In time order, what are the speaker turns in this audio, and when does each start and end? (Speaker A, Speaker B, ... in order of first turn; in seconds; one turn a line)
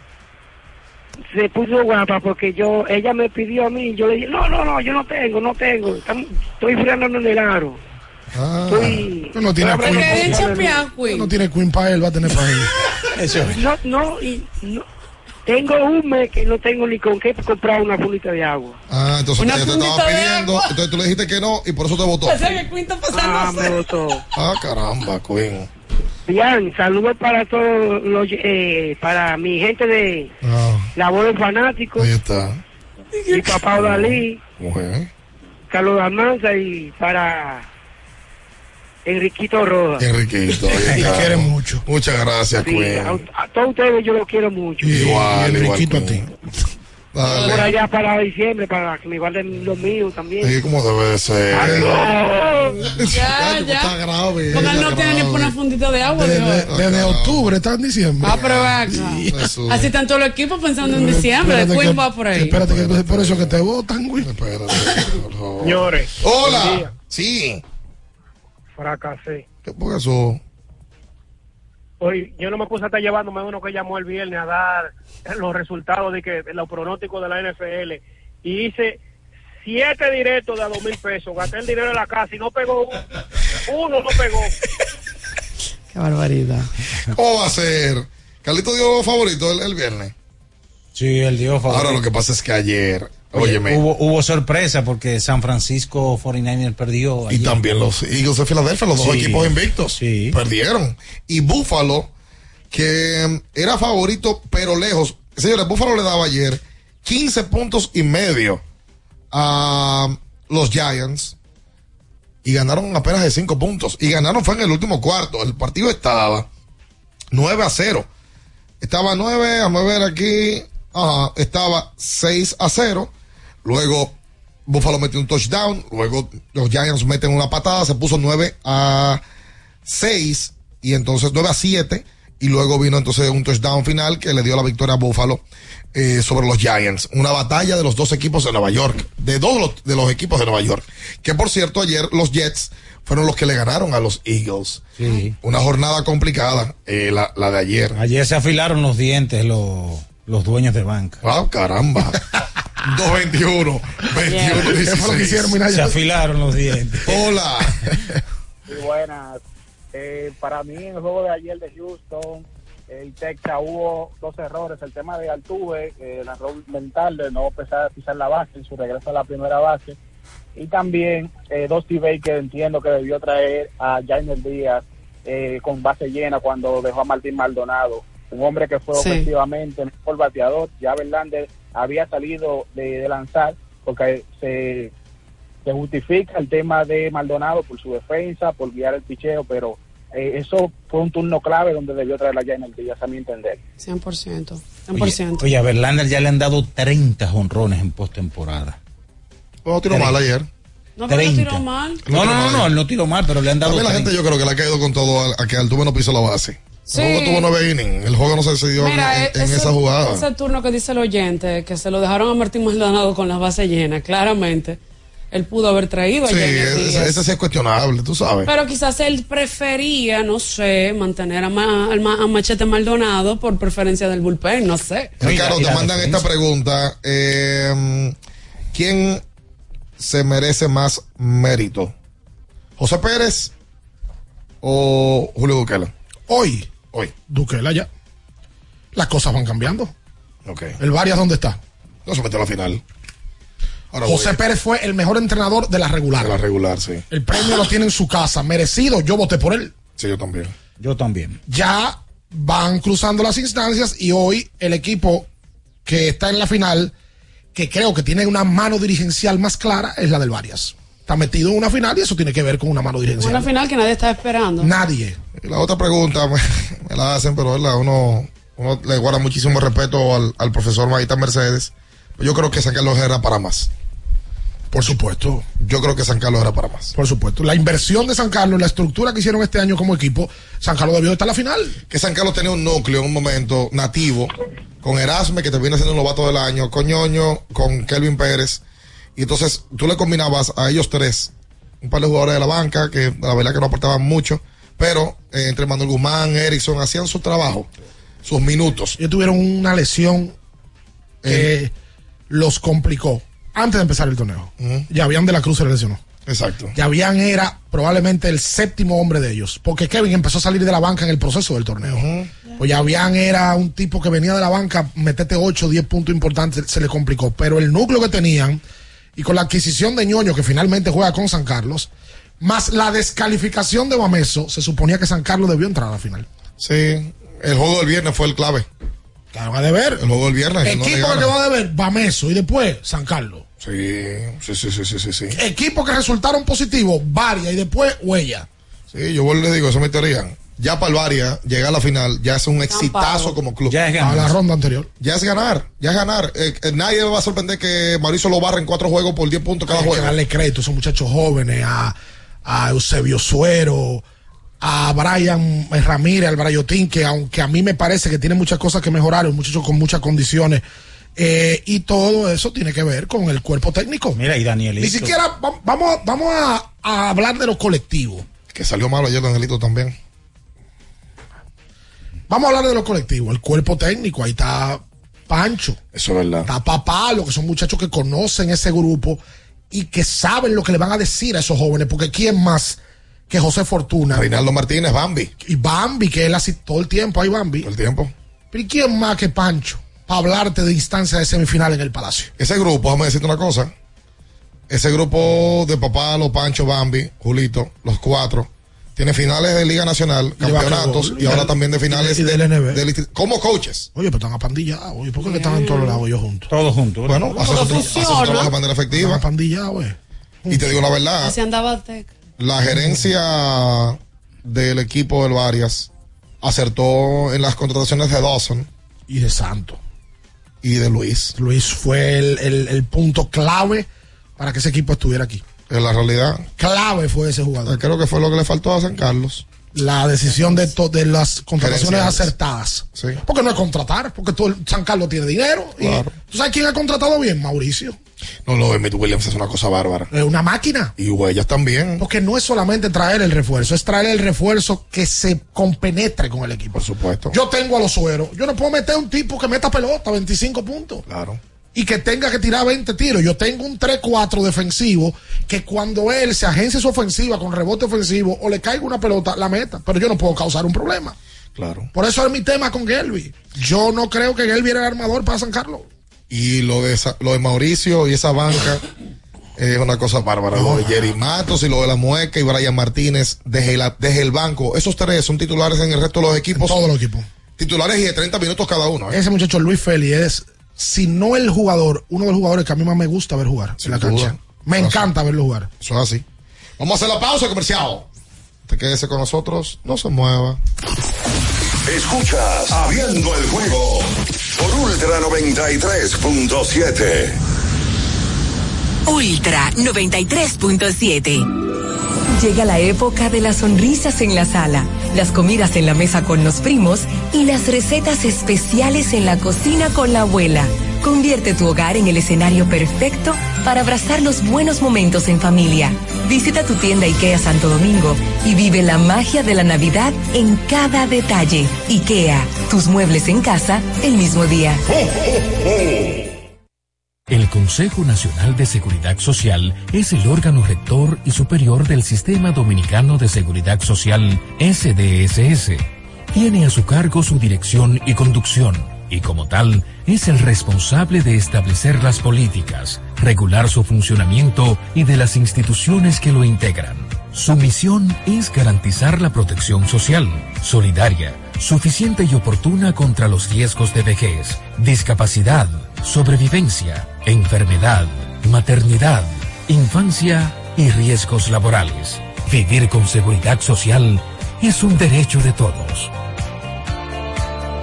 Speaker A: 1.3-7.8
Speaker B: 8.3-9.1
Speaker A: 8.7-10.8
Speaker C: 9.3-12.7
Speaker D: 9.7-11.3
Speaker E: 13.1-13.6
Speaker A: 13.4-14.8
Speaker A: 15.4-18.8
Speaker B: 18.9-22.6
Speaker D: 19.4-20.7
Speaker D: 22.2-23.8
Speaker A: 23.1-24.2
Speaker B: 24.3-25.7
Speaker A: 26.3-30.3
Speaker B: 30.4-30.9
Speaker A: 30.9-32.1
Speaker B: 32.0-32.6
Speaker D: 33.1-33.6
Speaker A: 33.3-34.4
Speaker B: 33.8-35.1
Speaker A: 35.7-37.6
Speaker A: 39.0-40.0
Speaker B: 40.0-43.2
Speaker C: 40.9-41.8
Speaker A: 42.6-45.1
Speaker C: 44.8-46.3
Speaker B: 44.9-46.2
Speaker B: 47.1-47.7
Speaker D: 47.3-47.7
Speaker A: 47.3-50.5
Speaker B: 50.4-52.1
Speaker A: 51.5-52.9
Speaker B: 52.8-55.5
Speaker D: 53.1-54.0
Speaker D: 54.5-56.7
Speaker C: 56.1-59.4
Speaker B: 56.7-57.5
Speaker D: 58.2-62.6
Speaker B: 58.3-58.7
Speaker B: 59.3-59.9
Speaker C: 60.9-64.3
Speaker B: 62.6-63.6
Speaker B: 64.2-67.6
Speaker F: 65.6-66.9
Speaker F: 68.8-69.4
Speaker B: 69.6-70.4
Speaker F: 72.0-79.0
Speaker F: 79.6-83.0
Speaker F: 83.7-84.5
Speaker D: 85.9-86.7
Speaker B: 87.1-90.1
Speaker E: 90.9-92.0
Speaker B: 91.7-93.8
Speaker E: 93.3-97.6
Speaker B: 97.3-102.1
Speaker E: 99.0-100.4
Speaker B: 102.7-108.6
Speaker B: 109.3-111.3
Speaker B: 112.4-116.5
Speaker B: 117.3-118.1
Speaker B: 118.8-123.1
Speaker B: 123.6-124.1
Speaker B: 124.7-129.2
Speaker B: 129.8-144.9
Speaker E: 145.0-145.3
Speaker B: 145.4-148.0
Speaker E: 147.9-151.2
Speaker B: 151.2-152.2
Speaker B: 152.8-155.6
Speaker D: 154.2-154.7
Speaker C: 154.5-156.0
Speaker E: 155.7-157.2
Speaker B: 157.1-157.8
Speaker G: 158.7-159.4
Speaker G: 159.9-170.0
Speaker G: 170.5-184.9
Speaker D: 178.9-179.2
Speaker G: 185.6-193.6
Speaker D: 193.8-195.4
Speaker E: 194.9-198.8
Speaker B: 199.6-200.5
Speaker E: 199.9-200.2
Speaker D: 201.0-202.0
Speaker E: 201.1-204.2
Speaker B: 202.1-202.7
Speaker B: 203.6-210.2
Speaker D: 206.9-207.5
Speaker D: 208.8-214.8
Speaker D: 215.3-217.2
Speaker B: 216.2-218.5
Speaker D: 218.4-225.1
Speaker E: 225.2-226.2
Speaker B: 225.2-228.1
Speaker B: 228.7-229.2
Speaker B: 230.0-231.9
Speaker B: 232.8-233.5
Speaker B: 234.6-235.9
Speaker C: 236.3-237.9
Speaker C: 238.9-239.9
Speaker B: 240.4-240.8
Speaker C: 240.8-241.6
Speaker B: 242.1-242.8
Speaker B: 243.9-244.4
Speaker C: 244.0-246.4
Speaker B: 246.2-247.0
Speaker C: 247.1-249.7
Speaker B: 250.0-250.5
Speaker E: 250.8-251.4
Speaker C: 251.5-255.3
Speaker C: 255.8-256.9
Speaker C: 257.5-263.5
Speaker D: 263.2-264.7
Speaker C: 264.6-265.2
Speaker B: 265.4-273.7
Speaker C: 274.7-275.4
Speaker B: 275.6-276.9
Speaker C: 276.9-281.8
Speaker B: 281.9-288.6
Speaker B: 289.1-297.7
Speaker B: 298.2-299.0
Speaker C: 299.0-300.3
Speaker B: 301.2-301.5
Speaker C: 301.2-301.7
Speaker C: 302.3-306.0
Speaker B: 304.6-304.9
Speaker B: 306.2-306.8
Speaker C: 306.7-312.1
Speaker B: 311.8-312.3
Speaker C: 312.6-318.6
Speaker C: 319.1-321.9
Speaker C: 322.4-326.3
Speaker B: 326.6-328.7
Speaker C: 329.3-330.0
Speaker B: 330.0-331.3
Speaker C: 330.6-333.4
Speaker B: 333.6-335.4
Speaker C: 335.3-338.5
Speaker B: 338.9-343.8
Speaker D: 342.7-343.4
Speaker E: 343.7-344.4
Speaker C: 344.0-344.9
Speaker B: 345.0-350.1
Speaker C: 349.7-354.0
Speaker C: 354.6-360.6
Speaker C: 361.1-364.2
Speaker E: 364.1-365.2
Speaker C: 364.8-368.2
Speaker B: 368.5-369.9
Speaker C: 372.3-375.8
Speaker B: 375.9-376.5
Speaker C: 376.4-384.3
Speaker B: 384.1-385.3
Speaker C: 385.4-387.7
Speaker B: 387.6-388.1
Speaker C: 388.5-392.3
Speaker B: 392.4-393.7
Speaker B: 394.7-403.9
Speaker C: 400.4-402.8
Speaker C: 403.9-406.5
Speaker D: 405.2-406.0
Speaker E: 406.5-407.8
Speaker B: 407.1-409.2
Speaker D: 407.3-408.5
Speaker C: 408.9-410.8
Speaker B: 410.5-411.3
Speaker D: 411.2-412.1
Speaker B: 412.4-415.9
Speaker B: 416.4-418.7
Speaker C: 419.1-419.8
Speaker B: 420.6-421.3
Speaker C: 421.3-423.9
Speaker C: 424.4-425.4
Speaker B: 425.7-426.5
Speaker C: 426.6-427.8
Speaker B: 427.6-429.5
Speaker C: 429.7-438.0
Speaker B: 431.6-432.3
Speaker B: 432.9-433.2
Speaker B: 435.8-436.1
Speaker B: 438.4-440.1
Speaker C: 440.1-440.9
Speaker B: 441.0-442.0
Speaker C: 442.0-446.8
Speaker B: 446.7-447.4
Speaker C: 447.3-451.0
Speaker B: 451.1-451.4
Speaker C: 451.7-461.1
Speaker B: 461.6-461.9
Speaker C: 461.9-465.9
Speaker B: 466.3-468.8
Speaker B: 469.6-476.8
Speaker C: 470.5-471.1
Speaker C: 476.5-477.3
Speaker B: 477.6-479.2
Speaker C: 479.1-485.7
Speaker B: 483.8-485.1
Speaker B: 485.8-486.2
Speaker B: 486.8-488.1
Speaker B: 488.6-490.6
Speaker H: 491.9-497.4
Speaker I: 499.1-501.5
Speaker J: 502.4-524.8
Speaker K: 527.3-566.1